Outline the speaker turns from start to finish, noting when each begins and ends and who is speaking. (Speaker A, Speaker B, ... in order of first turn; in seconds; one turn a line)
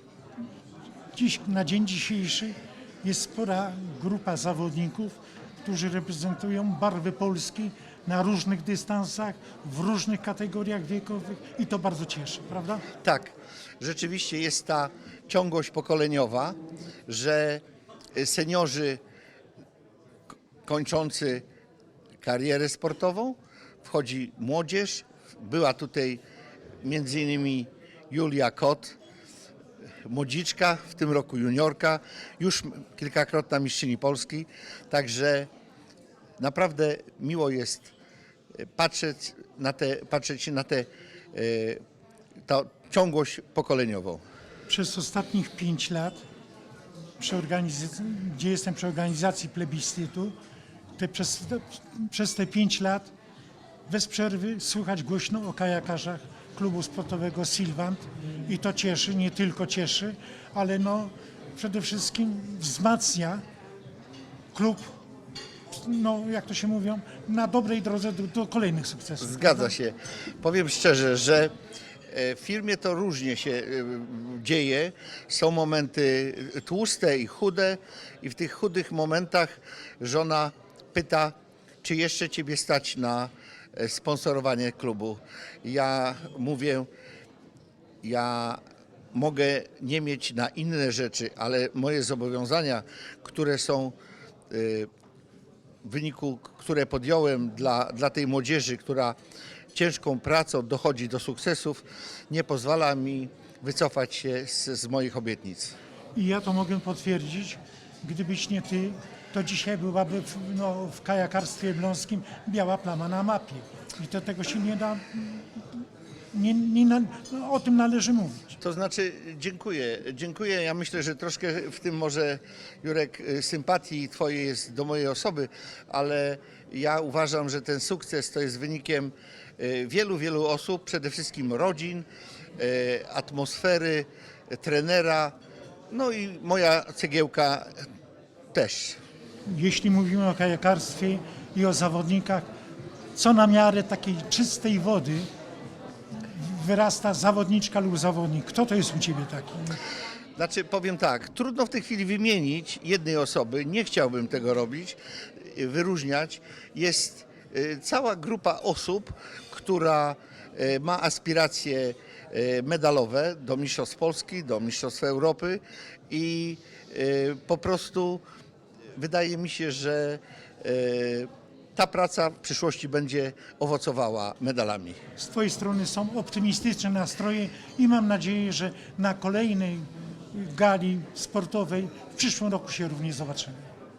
Speaker A: 1.1-12.9
Speaker B: 13.0-17.6
Speaker B: 18.1-19.0
Speaker B: 20.6-21.4
Speaker B: 22.2-26.2
Speaker B: 26.8-29.0
Speaker B: 30.1-35.5
Speaker B: 36.4-37.9
Speaker B: 38.8-41.8
Speaker B: 42.5-44.2
Speaker A: 44.7-46.2
Speaker A: 47.2-50.3
Speaker A: 51.0-53.1
Speaker A: 53.9-63.4
Speaker A: 64.5-64.9
Speaker A: 65.7-69.7
Speaker B: 69.2-71.5
Speaker B: 72.1-86.9
Speaker B: 88.0-88.6
Speaker B: 89.1-93.9
Speaker B: 94.5-94.9
Speaker B: 95.8-99.2
Speaker B: 99.7-105.7
Speaker A: 106.1-115.8
Speaker A: 116.3-118.5
Speaker B: 118.6-135.3
Speaker B: 135.9-137.8
Speaker B: 138.5-139.0
Speaker A: 139.5-142.4
Speaker A: 143.1-145.3
Speaker A: 146.2-149.8
Speaker B: 150.4-168.2
Speaker B: 168.9-175.0
Speaker A: 175.2-183.7